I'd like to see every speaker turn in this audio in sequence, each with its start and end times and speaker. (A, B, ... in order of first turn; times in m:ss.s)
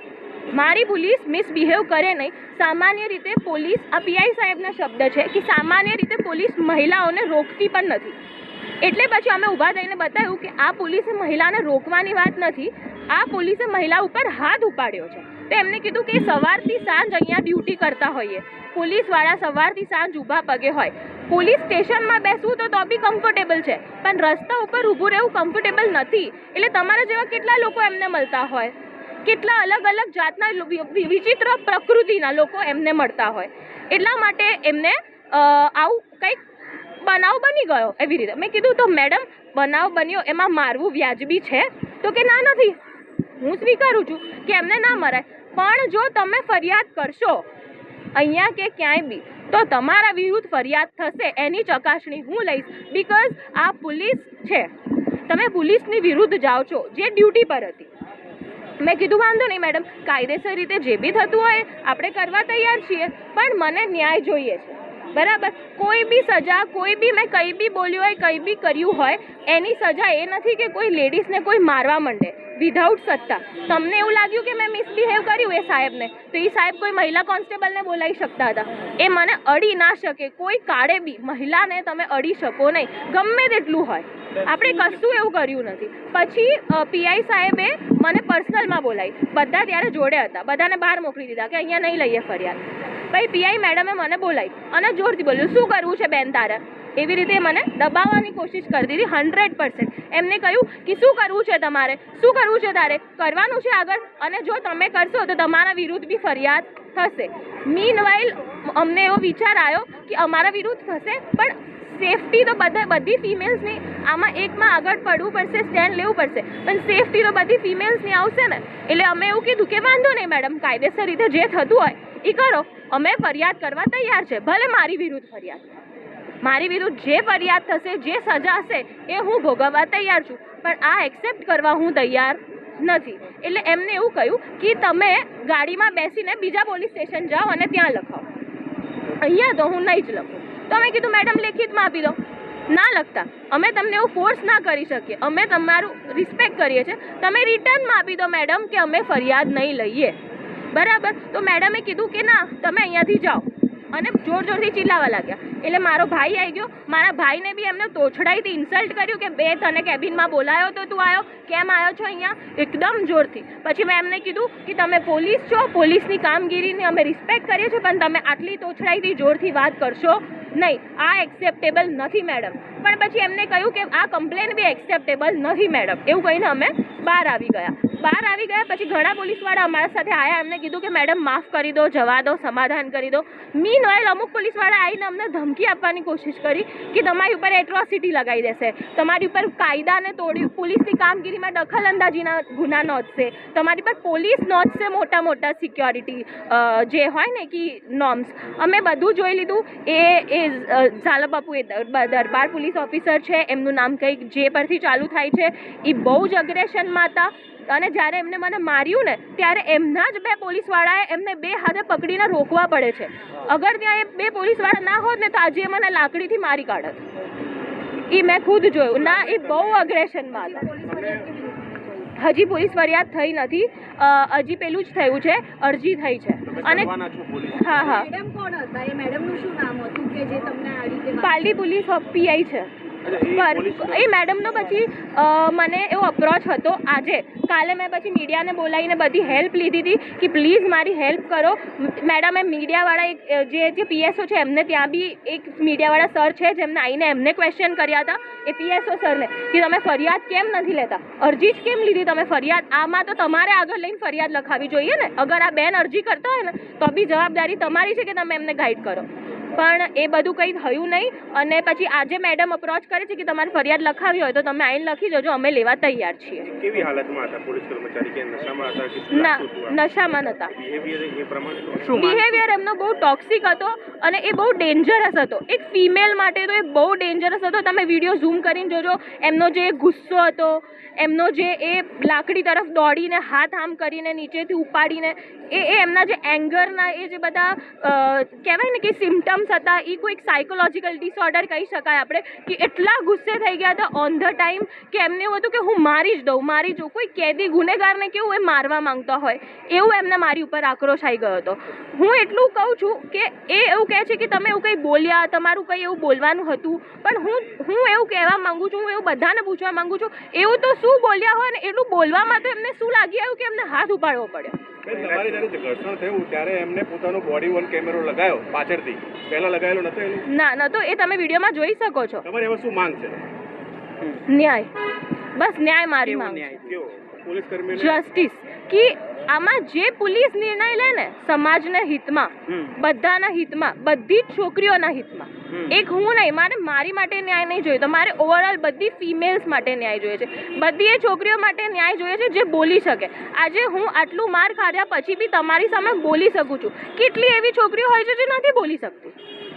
0:00.5-0:08.2 A
0:08.8-0:36.4 A
0:37.0-0:42.8 A
0:43.4-0:47.5 A
0:48.1-0:54.7 A
0:55.3-0:57.9 A
0:58.8-2:05.6 A
2:06.4-2:18.3 A
2:19.1-2:30.2 A
2:30.7-3:37.0 A
3:38.0-3:40.7 A
3:39.0-3:39.8 B
3:40.4-3:42.1 C
3:40.9-3:41.3 B
3:42.2-3:47.0 A
3:46.5-3:48.0 B
3:47.5-3:48.1 A
3:47.8-3:51.3 C
3:51.2-4:26.5 A
3:53.0-3:54.1 B
4:26.5-4:29.8 B
4:29.1-4:30.5 A
4:30.5-4:32.0 B
4:31.9-5:14.6 A
5:14.9-5:20.3 B
5:20.2-5:22.3 A
5:22.2-5:23.3 B
5:24.1-5:24.8 A
5:25.3-5:26.7 A
5:26.5-5:28.0 B
5:27.7-5:49.2 A